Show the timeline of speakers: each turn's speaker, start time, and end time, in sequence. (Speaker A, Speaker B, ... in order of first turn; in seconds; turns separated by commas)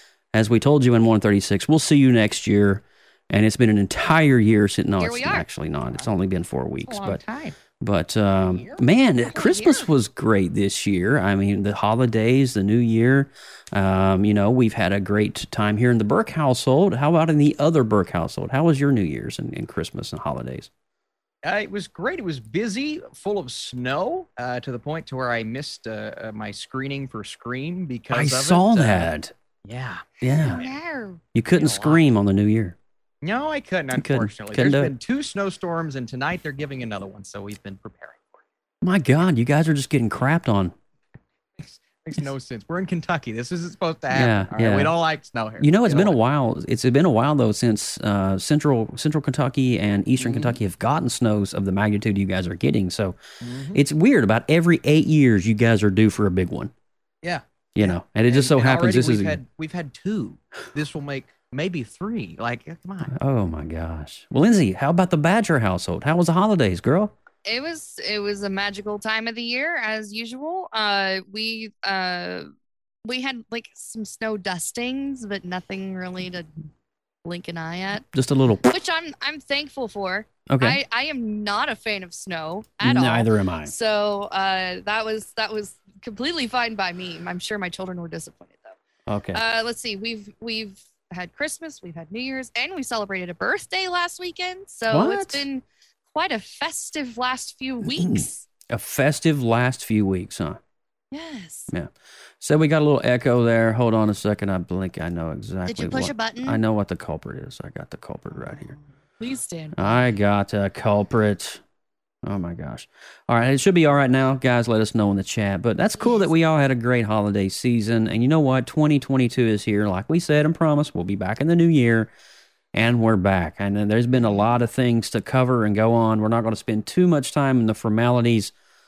Speaker A: 0.3-7.2, Speaker B: 5.0-5.5, Speaker C: 6.8-7.6, Speaker A: 7.8-20.7, Speaker C: 8.4-8.8, Speaker B: 9.3-9.9, Speaker C: 21.4-29.1, Speaker A: 28.1-29.3, Speaker C: 29.6-30.7, Speaker A: 30.2-30.6, Speaker B: 30.4-31.2, Speaker A: 31.4-32.8, Speaker C: 31.6-32.0, Speaker C: 33.2-38.4, Speaker A: 33.9-35.0, Speaker A: 38.8-40.8, Speaker C: 41.6-46.2, Speaker A: 44.1-45.0, Speaker A: 45.6-53.2, Speaker C: 50.2-50.6, Speaker C: 53.4-53.8, Speaker A: 53.7-56.7, Speaker C: 57.2-63.1, Speaker A: 57.8-59.4, Speaker A: 63.1-67.1, Speaker B: 67.5-72.5, Speaker B: 73.0-76.5, Speaker B: 77.2-78.1, Speaker A: 78.1-78.7, Speaker B: 78.7-88.8, Speaker A: 80.5-80.8, Speaker A: 82.8-83.7, Speaker A: 89.1-89.4, Speaker B: 89.3-98.5, Speaker A: 94.9-95.4, Speaker A: 97.8-100.6, Speaker B: 101.1-101.7, Speaker A: 101.7-108.8, Speaker B: 105.7-106.6, Speaker B: 109.2-110.0, Speaker A: 109.8-111.6, Speaker A: 112.2-122.1, Speaker A: 122.7-128.5